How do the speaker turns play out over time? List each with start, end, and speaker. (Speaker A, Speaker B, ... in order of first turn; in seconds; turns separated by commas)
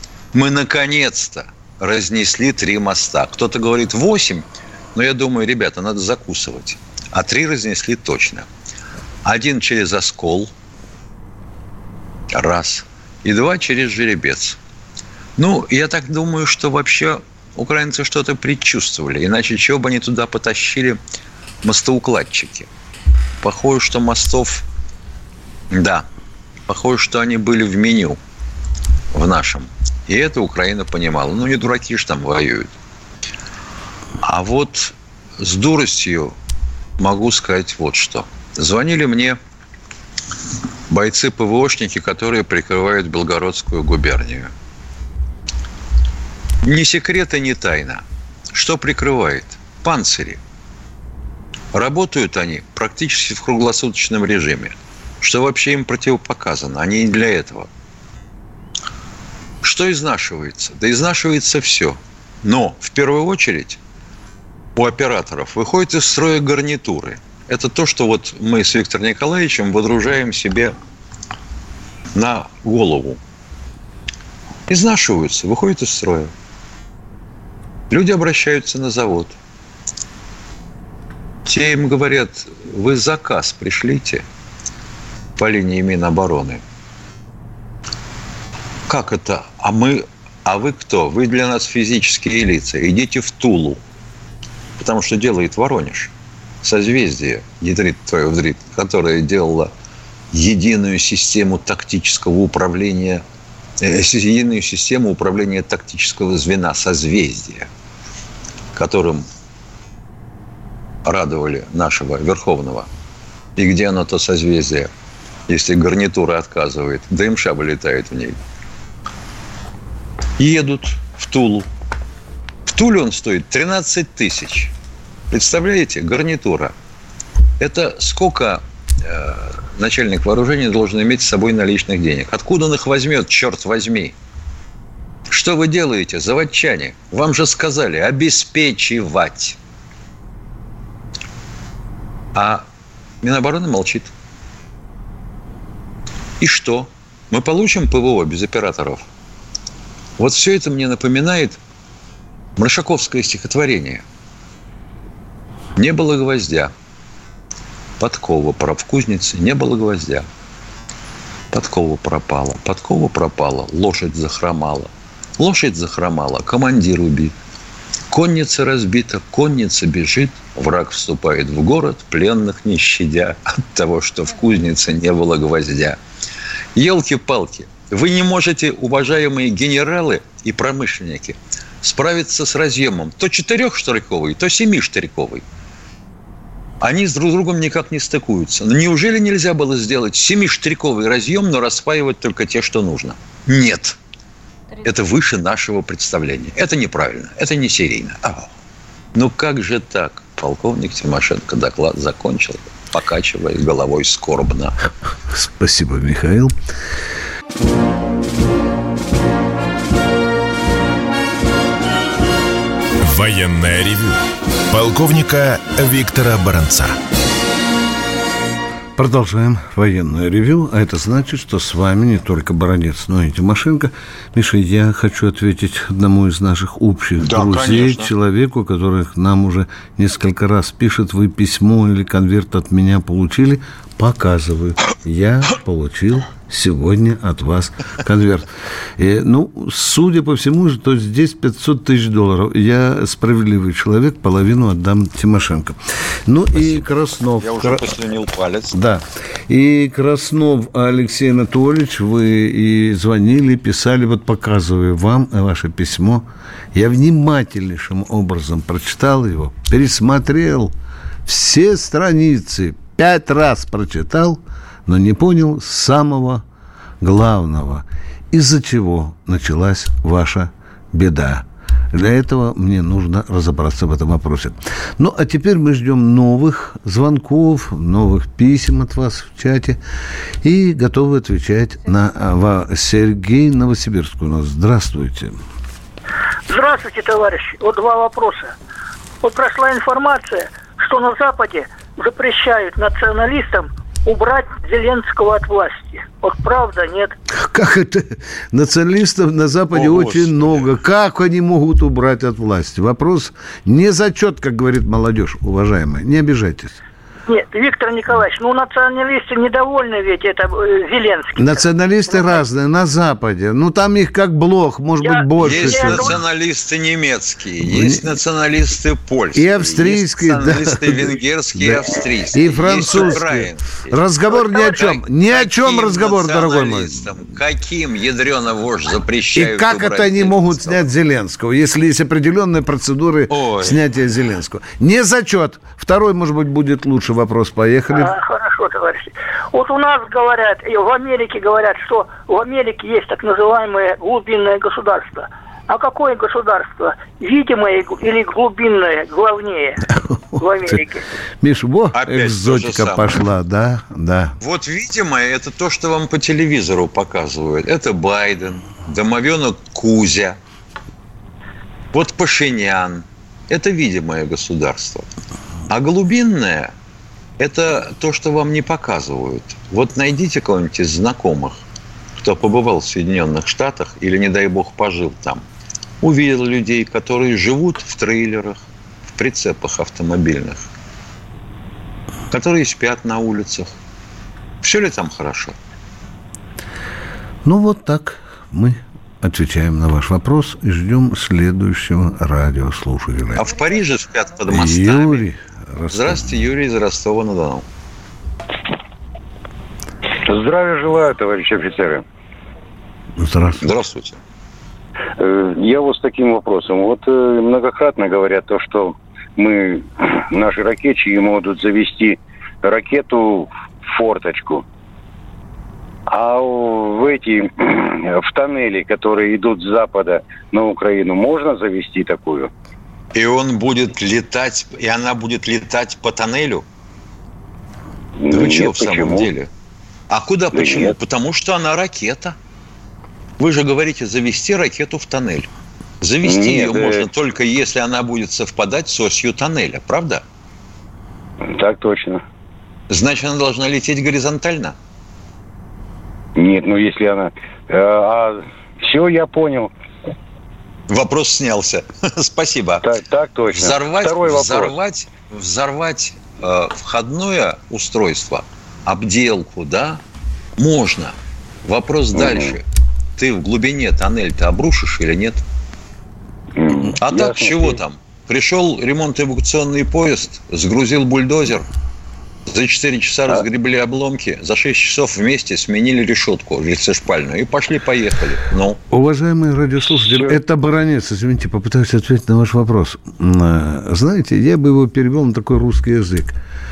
Speaker A: 0.3-8.5, Speaker A: 9.2-10.5, Speaker A: 12.3-14.6, Speaker A: 15.4-21.0, Speaker A: 21.6-22.7, Speaker A: 23.4-24.6, Speaker A: 25.7-26.1, Speaker A: 26.7-28.2, Speaker A: 29.1-32.7, Speaker A: 34.2-36.3, Speaker A: 37.0-39.4, Speaker A: 40.9-44.5, Speaker A: 46.6-50.4, Speaker A: 51.7-57.7, Speaker A: 59.6-63.8, Speaker A: 64.8-70.7, Speaker A: 72.2-73.2, Speaker A: 74.7-76.3, Speaker A: 77.9-79.4, Speaker A: 81.5-84.2, Speaker A: 85.4-86.6, Speaker A: 88.9-93.8, Speaker A: 94.8-96.1, Speaker A: 96.6-99.7, Speaker A: 100.3-103.2, Speaker A: 103.8-107.7, Speaker A: 108.8-109.3, Speaker A: 111.1-112.9, Speaker A: 113.6-114.9, Speaker A: 115.5-118.4, Speaker A: 120.4-121.7, Speaker A: 122.7-124.7, Speaker A: 125.3-126.7, Speaker A: 127.6-134.2, Speaker A: 135.3-139.6, Speaker A: 142.3-142.7, Speaker A: 143.2-144.1, Speaker A: 146.4-149.1, Speaker A: 150.2-151.6, Speaker A: 152.6-154.0, Speaker A: 155.8-156.7, Speaker A: 158.0-160.3, Speaker A: 161.5-167.3, Speaker A: 168.1-176.0, Speaker A: 176.8-185.4, Speaker A: 186.8-194.0, Speaker A: 194.8-198.5, Speaker A: 199.2-204.8, Speaker B: 205.3-206.6, Speaker C: 213.0-214.2, Speaker C: 214.7-217.0, Speaker B: 219.0-247.8, Speaker A: 227.2-228.1, Speaker A: 246.6-246.8, Speaker A: 247.4-248.8, Speaker B: 248.7-260.7, Speaker B: 261.2-266.4, Speaker B: 267.0-279.8, Speaker B: 280.4-285.4, Speaker D: 286.5-288.5, Speaker D: 289.2-297.1, Speaker B: 297.4-306.8, Speaker A: 299.7-300.7, Speaker D: 307.3-312.2, Speaker B: 311.4-316.2, Speaker D: 315.0-316.2, Speaker A: 315.4-324.0, Speaker B: 317.6-318.1, Speaker B: 319.4-327.1, Speaker D: 324.3-324.8, Speaker A: 324.7-330.8, Speaker B: 329.4-338.1, Speaker A: 333.3-333.8, Speaker D: 337.9-349.8, Speaker B: 350.0-350.8, Speaker D: 350.4-351.0, Speaker B: 351.4-354.4, Speaker A: 351.9-353.2, Speaker A: 354.4-360.4, Speaker A: 361.9-365.1, Speaker A: 365.7-366.7, Speaker A: 367.4-371.6, Speaker A: 372.2-375.4, Speaker A: 376.0-378.6, Speaker A: 379.2-380.6, Speaker A: 382.3-383.7, Speaker A: 384.6-385.6, Speaker B: 387.4-393.5, Speaker A: 393.4-395.3, Speaker B: 394.5-396.4, Speaker A: 395.9-397.6, Speaker E: 400.3-402.0, Speaker B: 403.2-403.7, Speaker A: 403.6-404.2, Speaker E: 405.2-414.6, Speaker E: 416.1-422.5, Speaker A: 423.1-426.6, Speaker E: 428.2-429.3, Speaker A: 428.3-429.5, Speaker A: 430.1-432.4, Speaker E: 430.5-431.0, Speaker A: 433.4-435.5, Speaker A: 436.0-440.2, Speaker E: 436.2-437.1, Speaker E: 441.5-442.2, Speaker A: 442.9-444.8, Speaker E: 446.4-449.7, Speaker A: 450.9-452.9, Speaker E: 452.8-454.7, Speaker A: 453.5-460.0, Speaker A: 460.6-462.6, Speaker E: 462.1-462.5, Speaker A: 463.2-465.4, Speaker E: 466.6-467.8, Speaker A: 467.0-471.7, Speaker A: 472.5-478.8, Speaker B: 478.9-486.4